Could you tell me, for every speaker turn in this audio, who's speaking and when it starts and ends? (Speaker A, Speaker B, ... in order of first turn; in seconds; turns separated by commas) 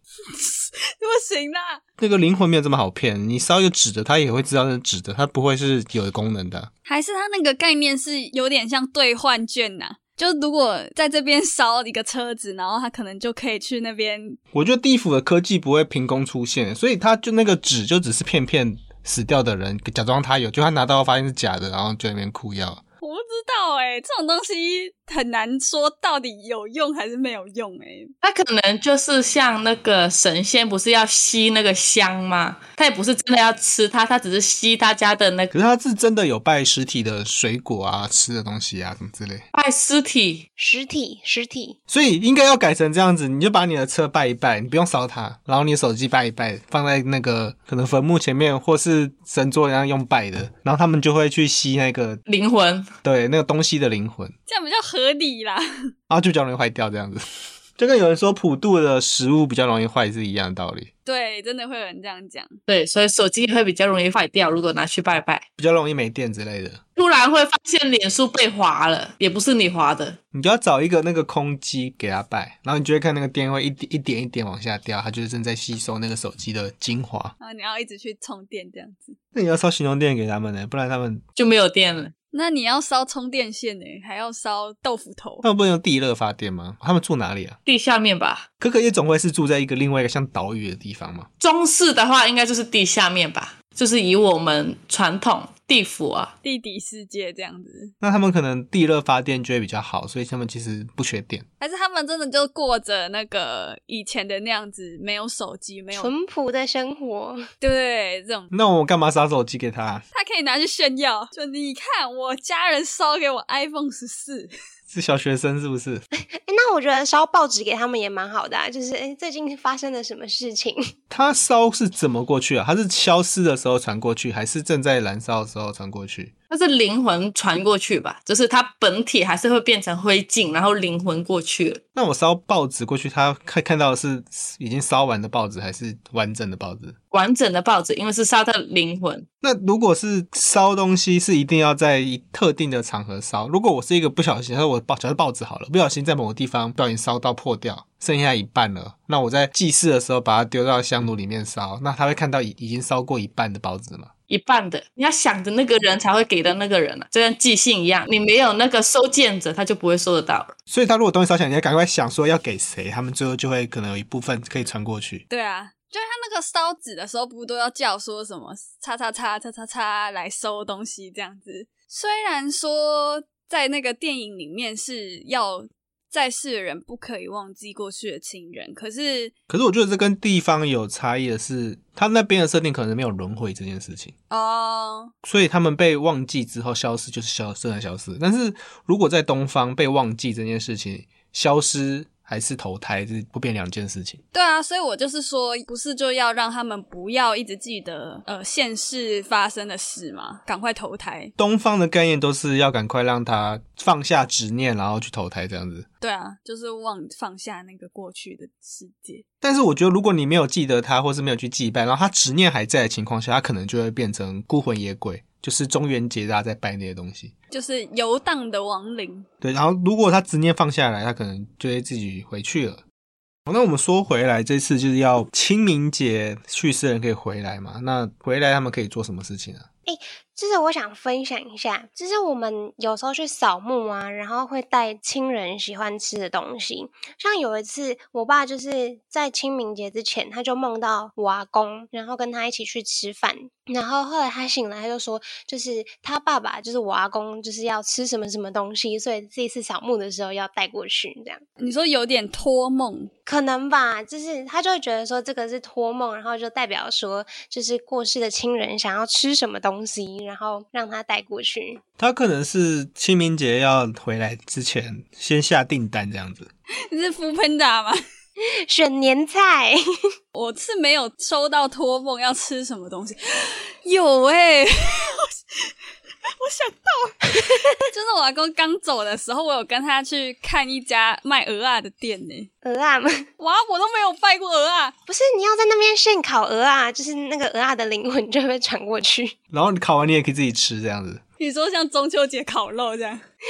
Speaker A: 0.3-1.8, Speaker B: 2.0-6.7, Speaker A: 6.9-14.4, Speaker B: 14.5-22.8, Speaker A: 23.0-28.1, Speaker C: 28.2-35.5, Speaker B: 35.5-39.4, Speaker C: 39.5-40.5, Speaker D: 40.6-41.8, Speaker B: 41.9-52.2, Speaker C: 52.3-52.9, Speaker B: 53.0-54.3, Speaker A: 54.5-55.6, Speaker B: 56.1-57.2, Speaker B: 57.8-60.9, Speaker A: 61.0-62.6, Speaker C: 62.7-65.4, Speaker B: 65.6-66.8, Speaker C: 67.0-70.2, Speaker B: 70.3-77.3, Speaker A: 77.4-79.2, Speaker B: 79.3-81.2, Speaker C: 81.4-82.1, Speaker A: 82.3-85.5, Speaker B: 85.4-87.6, Speaker C: 87.7-88.5, Speaker B: 88.6-91.3, Speaker C: 91.4-96.3, Speaker A: 96.4-97.9, Speaker B: 98.0-101.5, Speaker A: 101.6-106.1, Speaker D: 105.9-107.5, Speaker A: 107.6-108.5, Speaker B: 108.5-110.0, Speaker A: 110.1-114.5, Speaker B: 114.9-116.0, Speaker D: 116.4-120.9, Speaker B: 121.1-126.3, Speaker C: 126.5-131.8, Speaker B: 132.0-137.0, Speaker C: 137.1-139.3, Speaker B: 139.4-154.1, Speaker C: 154.3-160.5, Speaker B: 160.7-165.2, Speaker A: 165.3-179.3, Speaker B: 179.5-184.1, Speaker A: 184.3-185.1, Speaker B: 185.2-194.2, Speaker A: 194.3-201.3, Speaker B: 201.4-205.9, Speaker A: 206.0-209.2, Speaker B: 209.4-217.3, Speaker A: 217.5-219.3, Speaker B: 219.4-222.8, Speaker B: 223.5-229.7, Speaker D: 229.9-251.4, Speaker A: 251.6-253.1, Speaker D: 253.3-261.8, Speaker B: 262.0-266.5, Speaker A: 266.9-268.0, Speaker D: 268.7-269.8, Speaker A: 270.3-275.7, Speaker A: 276.4-282.5, Speaker D: 277.4-277.7, Speaker D: 282.6-283.3, Speaker A: 283.4-284.9, Speaker D: 285.1-289.4, Speaker B: 289.5-291.2, Speaker A: 291.4-293.2